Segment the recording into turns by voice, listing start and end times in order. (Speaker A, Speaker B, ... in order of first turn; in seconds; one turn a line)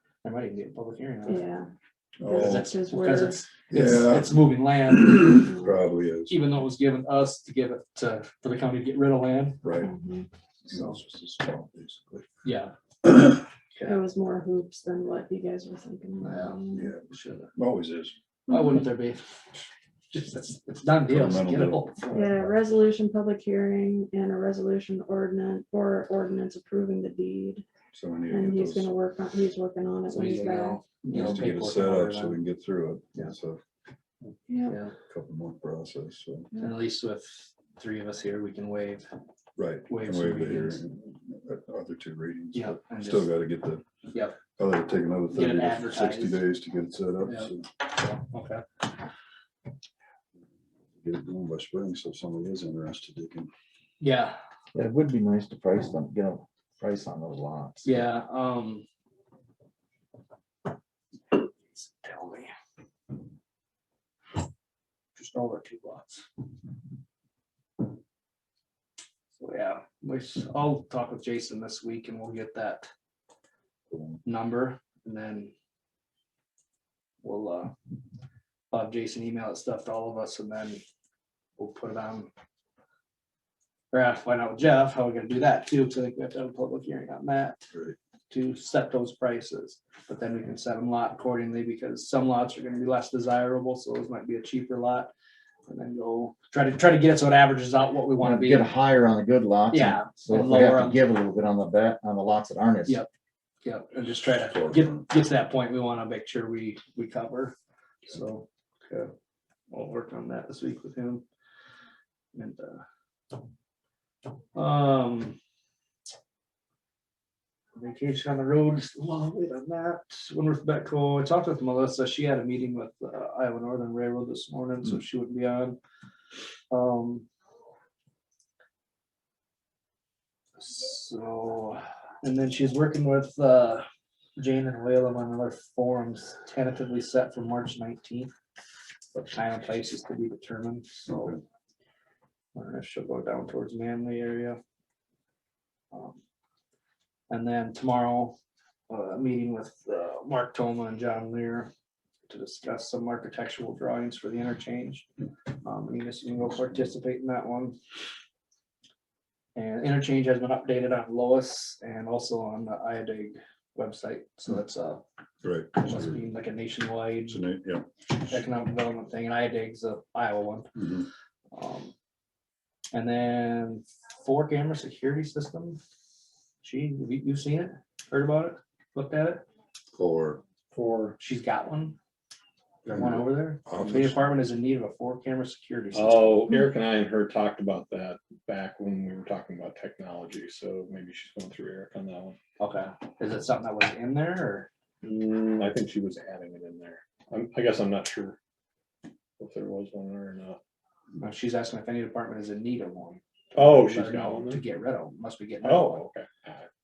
Speaker A: 0.2-1.4
Speaker B: 1.3-1.7
Speaker C: 2.2-2.7
Speaker B: 2.2-3.5
Speaker A: 2.4-5.5
Speaker C: 3.7-6.4
Speaker B: 5.3-5.7
Speaker A: 6.3-9.6
Speaker C: 9.6-9.9
Speaker B: 9.8-10.3
Speaker C: 10.7-12.3
Speaker A: 10.7-11.0
Speaker A: 12.4-12.8
Speaker A: 13.8-14.0
Speaker B: 13.8-16.9
Speaker A: 16.2-17.5
Speaker C: 16.7-18.1
Speaker A: 18.5-19.2
Speaker A: 20.1-22.2
Speaker C: 21.1-22.6
Speaker B: 22.1-27.6
Speaker C: 27.9-28.9
Speaker B: 28.3-30.9
Speaker A: 30.1-32.4
Speaker C: 31.0-33.6
Speaker B: 34.5-34.8
Speaker A: 34.7-34.9
Speaker C: 35.1-36.5
Speaker A: 36.6-39.1
Speaker C: 39.6-43.8
Speaker A: 39.9-40.8
Speaker A: 42.5-43.3
Speaker A: 44.1-44.4
Speaker C: 44.5-47.7
Speaker A: 45.3-46.4
Speaker A: 47.3-48.6
Speaker C: 51.0-53.5
Speaker A: 54.0-54.4
Speaker D: 54.7-58.0
Speaker A: 57.8-58.9
Speaker A: 61.3-62.5
Speaker A: 65.2-66.3
Speaker A: 69.4-72.9
Speaker A: 74.2-75.5
Speaker A: 77.2-77.7
Speaker A: 78.7-80.8
Speaker A: 81.6-82.3
Speaker A: 83.9-87.7
Speaker A: 88.3-95.1
Speaker A: 95.7-98.7
Speaker D: 98.2-103.0
Speaker A: 99.7-101.1
Speaker A: 103.6-107.5
Speaker C: 104.5-105.0
Speaker A: 108.1-109.1
Speaker A: 109.7-111.2
Speaker A: 112.3-112.8
Speaker A: 114.5-115.4
Speaker A: 117.8-125.8
Speaker A: 126.7-127.3
Speaker A: 130.6-133.9
Speaker A: 134.4-138.3
Speaker A: 139.2-141.4
Speaker A: 142.6-144.6
Speaker A: 145.9-146.2
Speaker A: 147.3-148.4
Speaker A: 148.9-151.7
Speaker A: 152.3-155.1
Speaker A: 155.6-157.8
Speaker A: 159.6-165.0
Speaker C: 165.4-166.2
Speaker A: 165.8-167.4
Speaker C: 167.3-167.9
Speaker A: 168.2-170.8
Speaker C: 170.8-171.1
Speaker A: 171.5-171.9
Speaker A: 172.9-175.8
Speaker A: 176.6-179.4
Speaker C: 179.9-180.4
Speaker E: 180.7-181.2
Speaker A: 181.2-182.0
Speaker A: 182.8-186.4
Speaker C: 182.9-184.2
Speaker E: 185.9-192.4
Speaker A: 192.6-194.7
Speaker E: 195.0-198.4
Speaker E: 199.4-200.6
Speaker A: 201.2-206.0
Speaker E: 203.6-204.6
Speaker E: 205.6-206.7